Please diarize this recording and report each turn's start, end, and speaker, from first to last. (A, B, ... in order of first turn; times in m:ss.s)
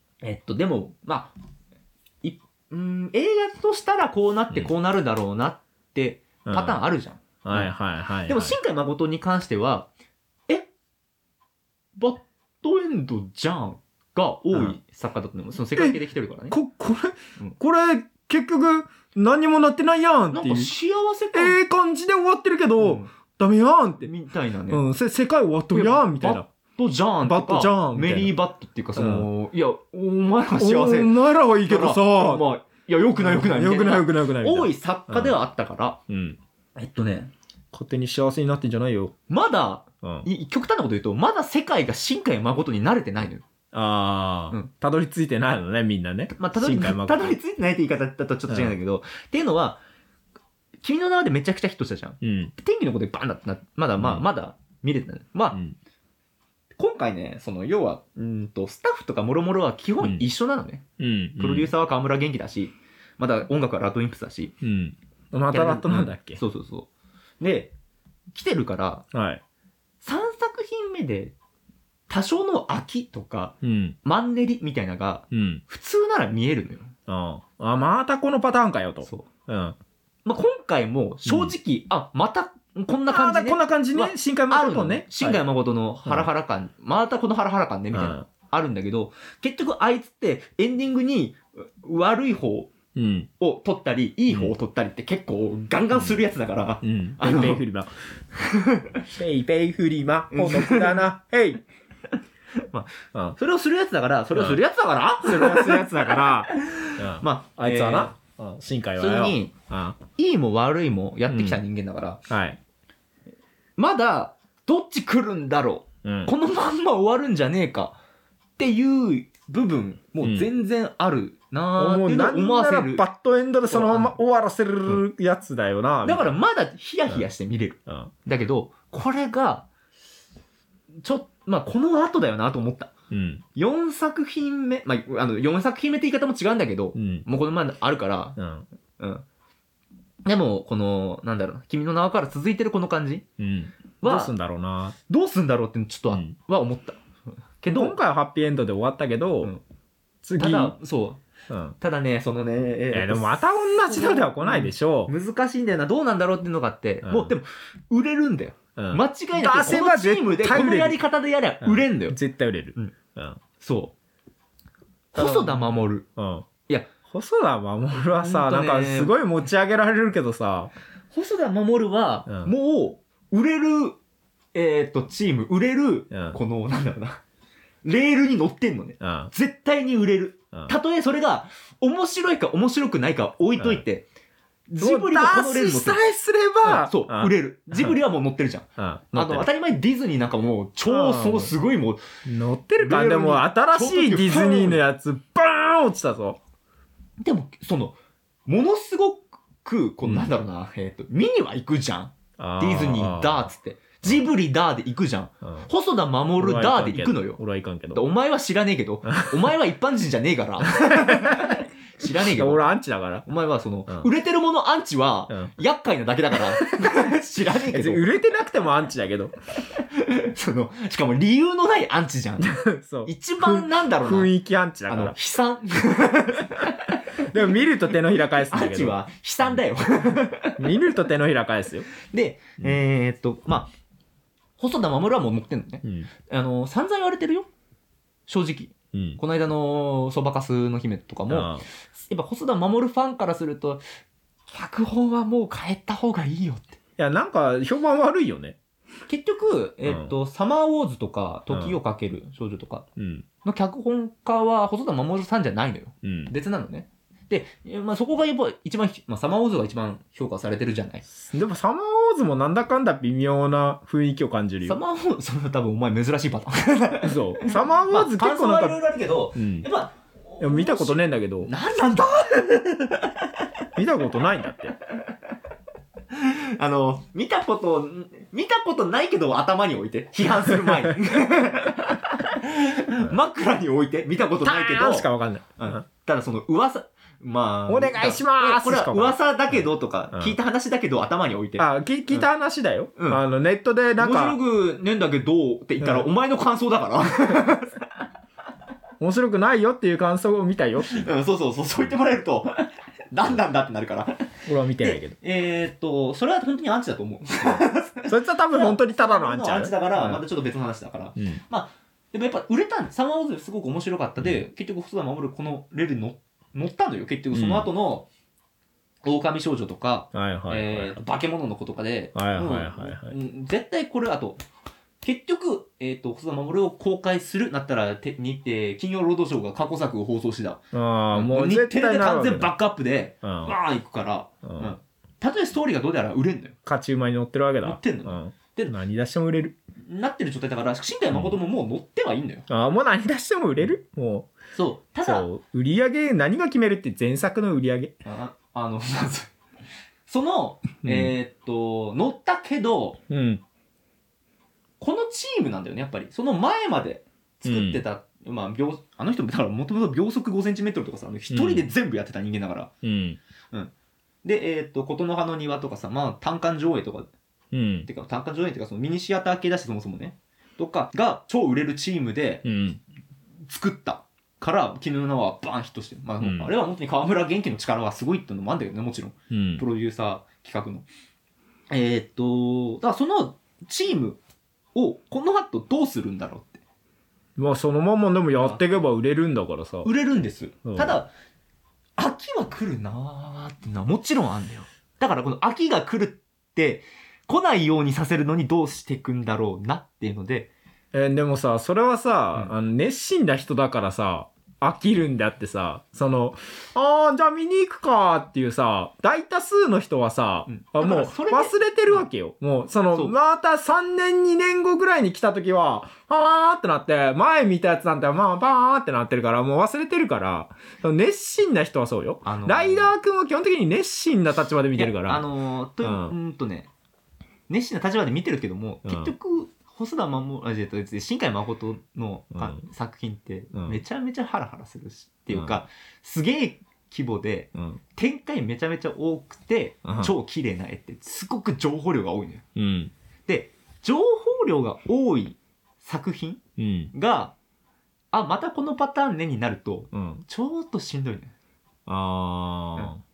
0:00.2-0:01.3 A
0:02.2-0:07.7 A
0:06.4-0:06.8 B
0:07.4-0:08.6 B
0:08.2-0:09.9 A
0:12.0-0:16.6 A
0:16.5-0:20.7 B
0:20.3-0:21.6 A
0:21.3-0:24.1 B
0:22.8-0:23.1 A
0:24.0-0:24.8 A
0:24.7-0:26.4 B
0:25.7-0:36.0 A
0:27.2-0:28.3 B
0:29.0-0:29.3 B
0:30.6-0:32.4 B
0:33.2-0:35.4 B
0:36.1-0:36.4 B
0:36.8-0:37.3 A
0:37.7-0:39.1 B
0:39.3-0:43.4 A
0:43.7-0:47.4 B
0:46.3-0:49.8 A
0:48.5-0:48.7 B
0:50.8-0:55.6 A
0:52.2-0:52.5 B
0:54.0-0:54.2 B
0:56.8-1:00.8 A
1:01.0-1:01.7 B
1:01.4-1:04.6 A
1:04.6-1:06.4 B
1:05.5-1:06.9 A
1:07.4-1:07.7 A
1:08.3-1:09.0 A
1:09.1-1:09.4 B
1:10.0-1:11.3 A
1:12.1-1:16.9 A
1:13.6-1:14.0 B
1:15.3-1:15.6 B
1:17.1-1:19.8 B
1:20.2-1:32.7 A
1:21.2-1:21.5 B
1:23.1-1:25.4 B
1:27.9-1:28.2 B
1:32.9-1:33.3 B
1:33.4-1:37.6 A
1:36.8-1:38.0 B
1:38.3-1:39.0 A
1:39.1-1:41.6 B
1:40.3-1:41.1 A
1:42.6-1:48.1 A
1:44.3-1:44.6 B
1:45.2-1:50.0 B
1:49.0-1:49.5 A
1:50.1-1:52.2 A
1:51.3-1:51.6 B
1:52.3-1:52.6 B
1:53.8-1:58.0 A
1:56.0-1:56.3 B
1:58.6-2:03.0 A
2:00.2-2:00.5 B
2:01.8-2:06.3 B
2:03.7-2:04.1 A
2:06.0-2:09.7 A
2:07.9-2:08.1 B
2:11.0-2:12.9 A
2:13.1-2:13.4 B
2:13.6-2:18.4 A
2:16.9-2:17.2 B
2:18.4-2:18.6 B
2:19.0-2:19.2 A
2:20.2-2:23.2 A
2:23.4-2:25.0 B
2:24.0-2:24.3 A
2:25.1-2:27.0 A
2:26.1-2:26.3 B
2:27.6-2:28.0 A
2:27.7-2:29.5 B
2:30.2-2:30.7 B
2:30.4-2:31.2 A
2:31.5-2:31.8 B
2:31.8-2:42.2 A
2:32.9-2:35.1 B
2:37.0-2:37.3 B
2:38.8-2:41.0 B
2:41.6-2:43.4 B
2:43.6-2:43.9 A
2:45.1-2:46.0 A
2:45.2-2:46.4 B
2:47.1-2:50.7 B
2:48.2-2:49.1 A
2:51.1-2:54.0 A
2:54.5-2:57.2 A
2:56.1-2:56.4 B
2:57.8-3:04.1 A
2:59.0-2:59.3 B
3:03.6-3:03.8 B
3:04.7-3:06.0 A
3:04.8-3:08.0 B
3:06.6-3:12.0 A
3:08.8-3:09.5 B
3:10.9-3:11.5 B
3:12.2-3:16.4 B
3:12.8-3:14.8 A
3:17.2-3:27.4 A
3:22.4-3:23.5 B
3:26.4-3:28.0 B
3:27.9-3:32.6 A
3:29.0-3:29.5 B
3:30.7-3:33.2 B
3:33.2-3:38.1 A
3:36.3-3:36.9 B
3:37.7-3:39.3 B
3:39.7-3:44.3 A
3:42.4-3:45.2 B
3:44.9-3:47.3 A
3:47.2-3:49.0 B
3:48.2-3:50.7 A
3:50.6-3:51.9 B
3:52.0-3:53.7 A
3:54.6-3:57.5 A
3:55.8-3:56.1 B
3:58.3-4:03.8 A
3:58.9-3:59.2 B
4:01.3-4:01.6 B
4:04.5-4:06.8 A
4:07.0-4:08.6 B
4:09.1-4:12.8 A
4:09.9-4:10.1 B
4:11.5-4:11.8 B
4:13.0-4:13.2 B
4:13.4-4:21.0 A
4:16.0-4:16.3 B
4:21.1-4:24.8 B
4:24.6-4:33.3 A
4:27.0-4:28.8 B
4:29.3-4:29.7 B
4:30.4-4:31.5 B
4:33.8-4:34.8 B
4:36.1-4:52.3 A
4:40.5-4:40.9 B
4:44.4-4:45.8 B
4:47.7-4:50.4 B
4:51.6-4:54.4 B
4:53.0-4:53.2 A
4:54.0-4:57.8 A
4:55.8-4:56.1 B
4:59.0-5:01.0 B
5:00.9-5:18.1 A
5:04.5-5:05.1 B
5:07.4-5:10.2 B
5:17.3-5:17.7 B
5:19.0-5:24.4 A
5:20.1-5:21.0 B
5:22.1-5:23.1 B
5:25.0-5:30.6 A
5:30.7-5:32.5 B
5:31.1-5:36.6 A
5:33.2-5:33.5 B
5:34.4-5:34.7 B
5:36.6-5:39.6 B
5:37.6-5:38.8 A
5:39.9-5:42.4 A
5:42.5-5:44.3 B
5:44.5-5:45.3 A
5:45.0-5:47.9 B
5:48.0-5:49.3 A
5:50.1-5:53.0 A
5:50.8-5:51.1 B
5:53.1-5:53.4 B
5:54.8-6:02.7 A
5:57.4-5:57.8 B
6:01.3-6:01.7 B
6:02.8-6:03.2 B
6:04.2-6:07.1 A
6:07.5-6:07.9 B
6:07.8-6:12.4 A
6:12.4-6:12.8 B
6:13.5-6:20.8 A
6:16.2-6:16.5 B
6:19.3-6:19.6 B
6:21.7-6:24.2 A
6:24.7-6:26.6 A
6:27.4-6:29.9 B
6:28.3-6:28.7 A
6:29.8-6:31.1 A
6:30.6-6:31.0 B
6:32.0-6:40.5 A
6:40.9-7:05.2 B
6:50.5-6:52.0 A
7:02.2-7:02.9 A
7:04.7-7:06.7 A
7:05.8-7:06.1 B
7:07.5-7:22.4 A
7:08.8-7:09.1 B
7:12.3-7:12.6 B
7:13.5-7:13.8 B
7:15.3-7:15.6 B
7:19.8-7:20.1 B
7:22.5-7:22.9 B
7:23.3-7:26.4 A
7:26.6-7:26.9 B
7:26.9-7:27.3 A
7:28.1-7:31.3 A
7:29.9-7:30.2 B
7:31.9-7:33.0 B